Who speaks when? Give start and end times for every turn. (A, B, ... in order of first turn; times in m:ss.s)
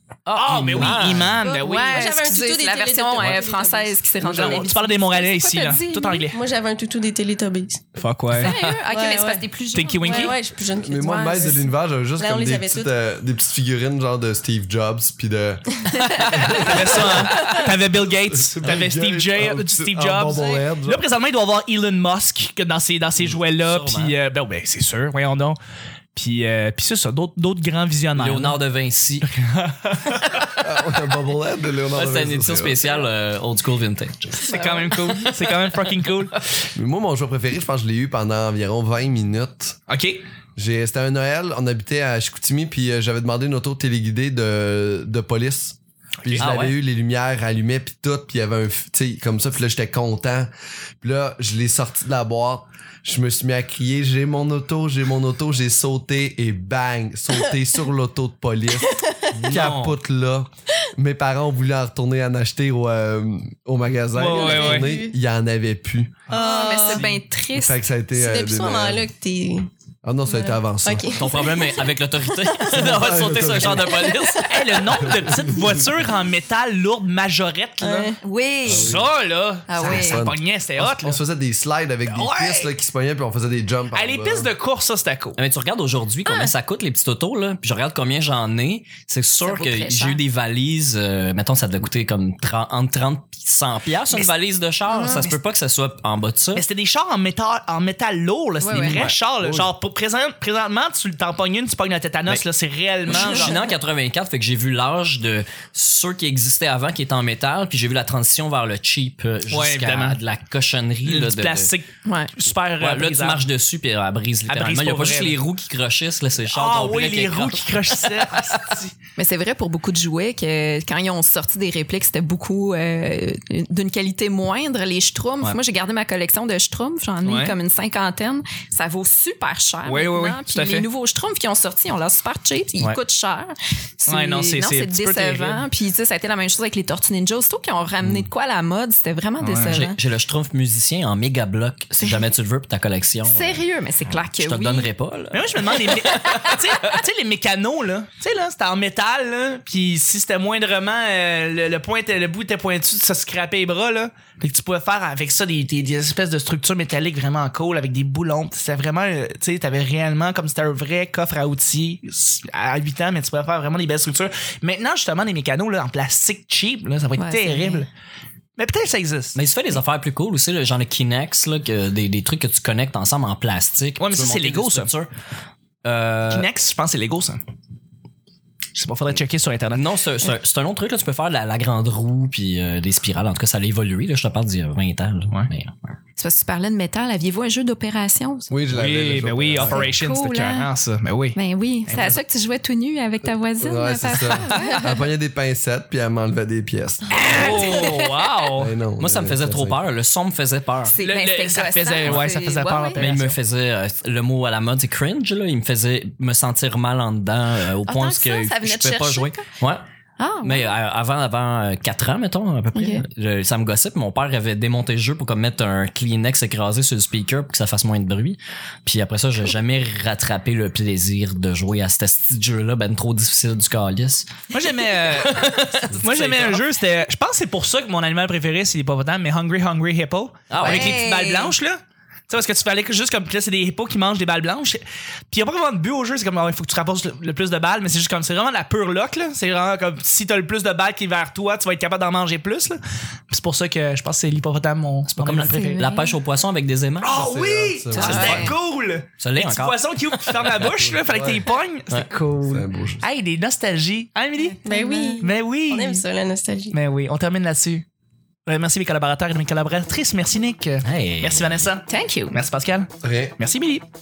0:00.3-0:01.4 A
0:00.3-0:02.1 B
0:01.2-0:06.3 C
0:01.4-0:04.0 D
0:04.2-0:04.7 E
0:04.3-0:06.4 B
0:06.3-0:07.9 D
0:08.0-0:08.6 B
0:08.4-0:10.4 C
0:08.4-0:08.8 A
0:08.9-0:09.4 D
0:09.7-0:10.4 B
0:10.0-0:11.6 D
0:10.8-0:17.5 E
0:11.0-0:11.7 C
0:12.1-0:12.9 D
0:16.5-0:25.6 B
0:18.5-0:21.0 E
0:23.2-0:24.2 A
0:26.2-0:28.6 B
0:28.2-0:29.3 A
0:29.3-0:30.4 B
0:30.6-0:32.8 E
0:31.9-0:35.7 A
0:34.4-0:36.4 B
0:34.6-0:34.9 C
0:36.8-0:39.8 E
0:39.9-0:40.2 B
0:40.6-0:50.5 E
0:46.2-0:46.5 B
0:46.4-0:46.8 A
0:51.0-1:06.3 E
0:58.9-0:59.2 D
0:59.3-0:59.9 A
0:59.5-0:59.9 B
1:04.1-1:04.9 B
1:04.3-1:05.1 D
1:06.3-1:07.1 D
1:06.3-1:07.8 C
1:06.9-1:07.2 B
1:07.5-1:09.1 E
1:08.1-1:09.7 D
1:10.0-1:11.1 E
1:10.3-1:11.9 D
1:11.1-1:14.9 A
1:12.7-1:14.3 E
1:14.4-1:18.1 B
1:14.9-1:15.9 E
1:17.8-1:19.0 C
1:18.7-1:19.1 E
1:18.7-1:21.2 B
1:19.7-1:20.2 C
1:19.8-1:24.5 E
1:22.0-1:22.8 B
1:23.9-1:25.4 B
1:25.4-1:36.6 A
1:29.4-1:30.2 C
1:34.9-1:35.3 C
1:36.6-1:43.6 B
1:38.6-1:39.1 C
1:39.4-1:39.7 E
1:43.1-1:51.7 A
1:43.1-1:43.5 C
1:49.5-1:50.2 B
1:51.0-1:53.5 B
1:52.1-1:52.3 C
1:52.8-1:58.3 A
1:54.5-1:55.4 B
1:56.5-1:58.9 B
1:59.2-2:20.0 C
2:07.2-2:07.6 B
2:09.9-2:10.9 B
2:14.1-2:15.7 B
2:18.0-2:18.3 A
2:19.4-2:19.9 B
2:19.6-2:26.3 A
2:22.0-2:22.3 C
2:23.2-2:24.9 C
2:25.3-2:47.9 B
2:47.2-2:47.9 C
2:48.6-2:49.4 B
2:49.4-2:55.1 A
2:54.0-2:54.9 B
2:55.8-2:56.5 A
2:56.3-2:57.4 B
2:58.8-2:59.8 B
2:59.7-3:05.9 A
3:06.2-3:08.5 C
3:08.5-3:09.9 E
3:08.7-3:12.2 B
3:09.6-3:10.7 C
3:11.4-3:15.1 C
3:13.6-3:17.7 E
3:17.1-3:18.1 C
3:17.1-3:18.7 B
3:18.6-3:19.8 E
3:19.0-3:21.0 A
3:20.8-3:23.2 C
3:21.0-3:23.3 B
3:23.0-3:29.8 A
3:27.9-3:29.5 C
3:30.2-3:30.8 C
3:30.4-3:44.3 A
3:32.8-3:33.0 C
3:44.5-3:45.5 B
3:45.1-3:46.6 A
3:46.0-4:05.8 B
3:50.5-3:51.0 A
3:50.6-3:51.6 C
4:05.1-4:07.2 A
4:05.4-4:06.2 C
4:07.0-4:14.6 B
4:07.1-4:08.5 E
4:07.9-4:08.6 C
4:09.2-4:10.7 A
4:10.6-4:11.5 E
4:12.4-4:13.0 E
4:14.4-4:15.3 C
4:14.6-4:16.8 D
4:15.2-4:16.0 B
4:16.7-4:17.9 B
4:18.5-4:23.9 B
4:20.8-4:21.6 A
4:21.9-4:22.4 C
4:23.0-4:23.4 E